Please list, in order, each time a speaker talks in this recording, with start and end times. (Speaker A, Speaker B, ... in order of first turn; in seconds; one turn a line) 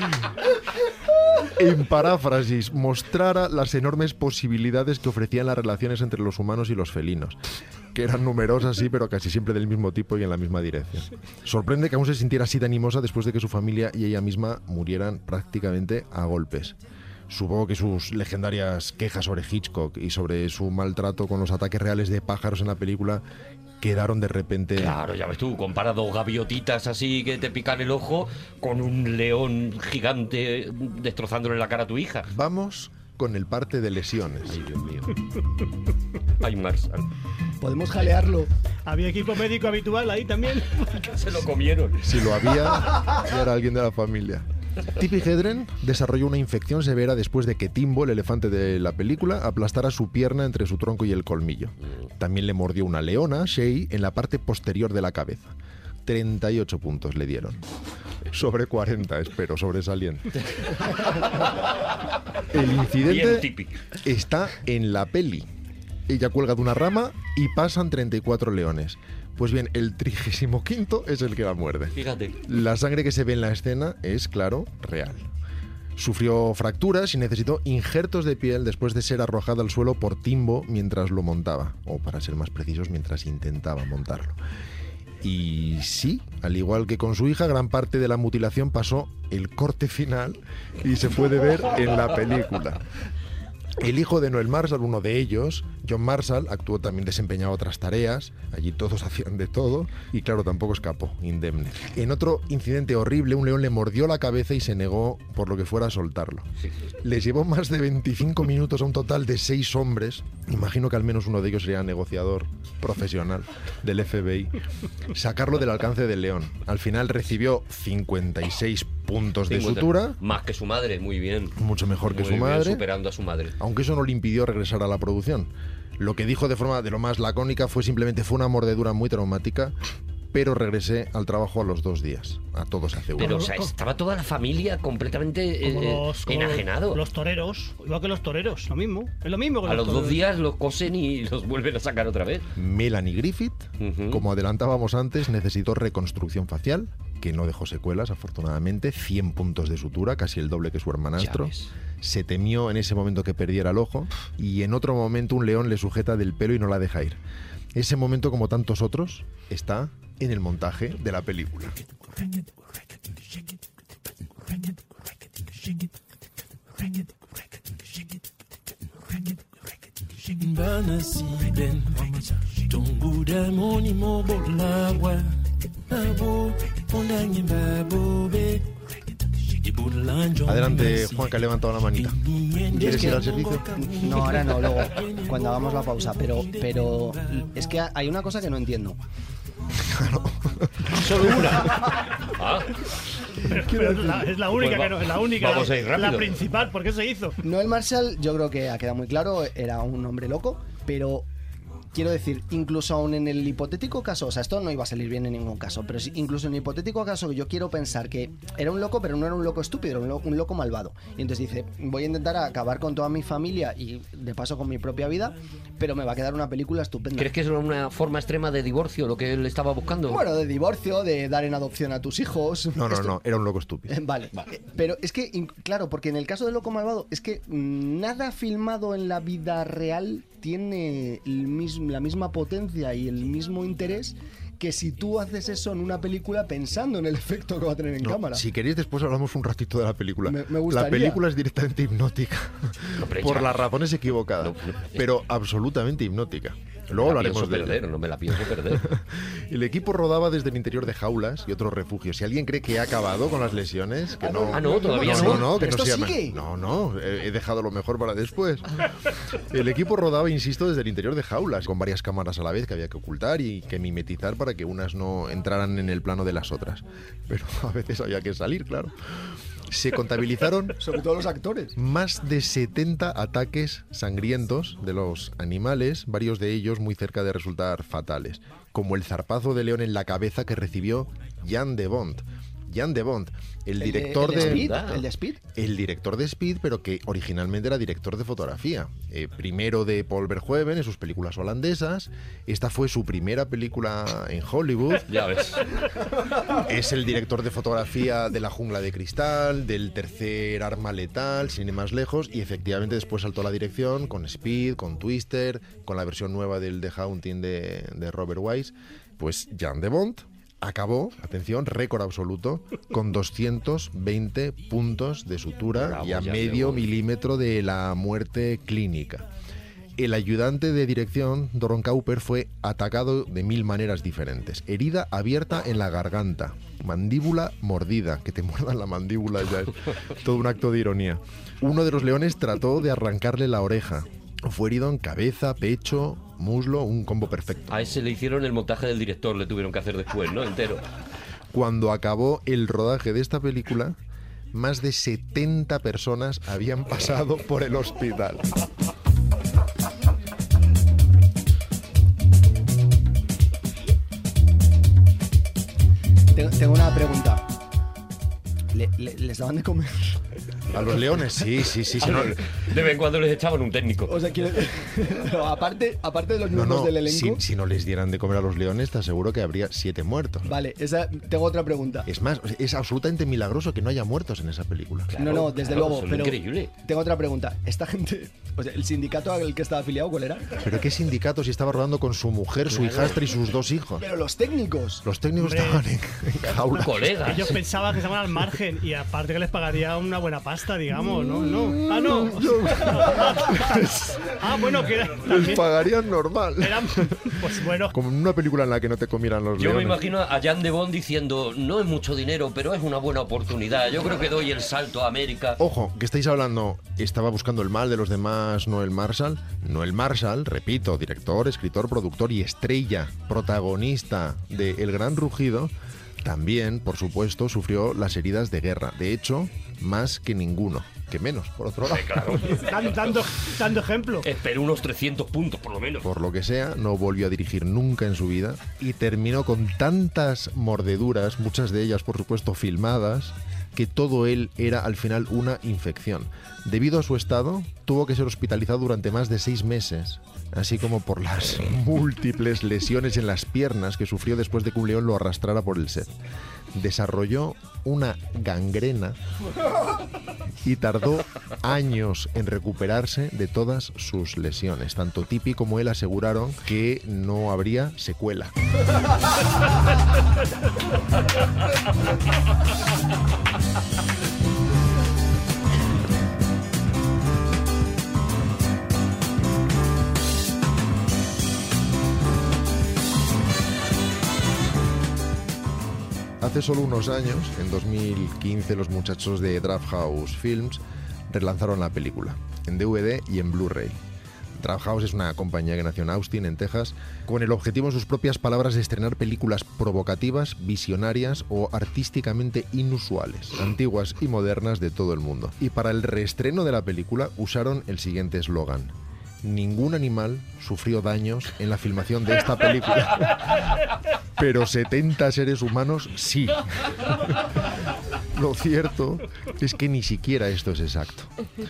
Speaker A: 1.6-7.4
Speaker A: 7.9-16.8
Speaker A: 17.3-23.2
Speaker A: 23.8-25.0
Speaker B: 24.8-32.3
Speaker A: 32.3-34.6
Speaker B: 34.5-35.2
Speaker B: 36.4-37.0
Speaker C: 37.6-38.5
Speaker D: 38.9-41.1
Speaker B: 41.0-42.1
Speaker A: 42.0-55.5
Speaker A: 56.0-57.6
Speaker A: 58.3-60.5
Speaker A: 62.5-63.5
Speaker B: 63.0-63.8
Speaker A: 64.0-65.5
Speaker A: 66.1-75.3
Speaker B: 72.0-72.4
Speaker A: 76.0-84.4
Speaker A: 85.2-92.8
Speaker A: 93.8-106.5
Speaker A: 107.0-114.6
Speaker A: 115.1-120.2
Speaker B: 119.5-123.5
Speaker A: 121.6-122.9
Speaker A: 123.6-129.8
Speaker A: 130.3-133.4
Speaker D: 133.2-133.7
Speaker B: 133.2-137.0
Speaker D: 135.6-140.2
Speaker B: 139.6-142.5
Speaker A: 142.6-157.2
Speaker B: 143.8-144.2
Speaker B: 151.2-151.7
Speaker A: 157.8-161.8
Speaker E: 170.2-187.6
Speaker A: 180.4-183.7
Speaker C: 182.7-189.0
Speaker A: 189.8-191.4
Speaker B: 190.9-192.7
Speaker D: 193.4-197.4
Speaker C: 193.5-194.3
Speaker B: 194.5-196.3
Speaker C: 197.4-201.3
Speaker C: 201.9-217.3
Speaker B: 217.2-220.3
Speaker C: 220.1-223.2
Speaker A: 222.7-224.0
Speaker C: 223.9-238.5
Speaker A: 238.0-247.8
Speaker C: 240.2-241.2
Speaker B: 242.9-243.7
Speaker B: 244.4-245.1
Speaker B: 247.0-248.9
Speaker A: 248.7-268.9
Speaker C: 254.2-256.4
Speaker B: 254.5-255.6
Speaker A: 269.7-270.8
Speaker C: 270.8-271.8
Speaker A: 271.8-284.8
Speaker C: 283.8-285.4
Speaker B: 284.3-285.0
Speaker A: 285.5-295.1
Speaker B: 295.1-295.7
Speaker A: 296.4-319.3
Speaker B: 315.7-316.9
Speaker A: 320.0-338.0
Speaker B: 337.7-340.8
Speaker A: 341.5-344.0
Speaker A: 344.5-348.5
Speaker C: 356.3-357.5
Speaker C: 358.7-360.2
Speaker A: 360.7-362.4
Speaker B: 362.0-364.2
Speaker C: 364.1-367.4
Speaker A: 366.5-370.5
Speaker C: 370.4-372.1
Speaker A: 372.1-375.2
Speaker B: 375.1-376.7
Speaker C: 375.2-380.7
Speaker A: 380.6-384.1
Speaker B: 382.7-383.2
Speaker C: 384.0-385.1
Speaker A: 385.1-387.2
Speaker D: 385.4-385.9
Speaker B: 386.5-387.6
Speaker D: 387.2-395.6
Speaker A: 391.0-394.3
Speaker A: 395.2-397.3
Speaker D: 396.6-397.9
Speaker A: 397.9-400.1
Speaker B: 399.6-405.6
Speaker A: 405.6-422.6
Speaker B: 421.9-423.1
Speaker D: 422.6-424.3
Speaker B: 424.2-426.1
Speaker A: 426.0-446.2
Speaker A: 446.7-449.2
Speaker A: 450.6-458.5
Speaker A: 476.4-484.0
Speaker A: 484.6-503.8
Speaker A: 504.4-507.7
Speaker A: 508.3-511.3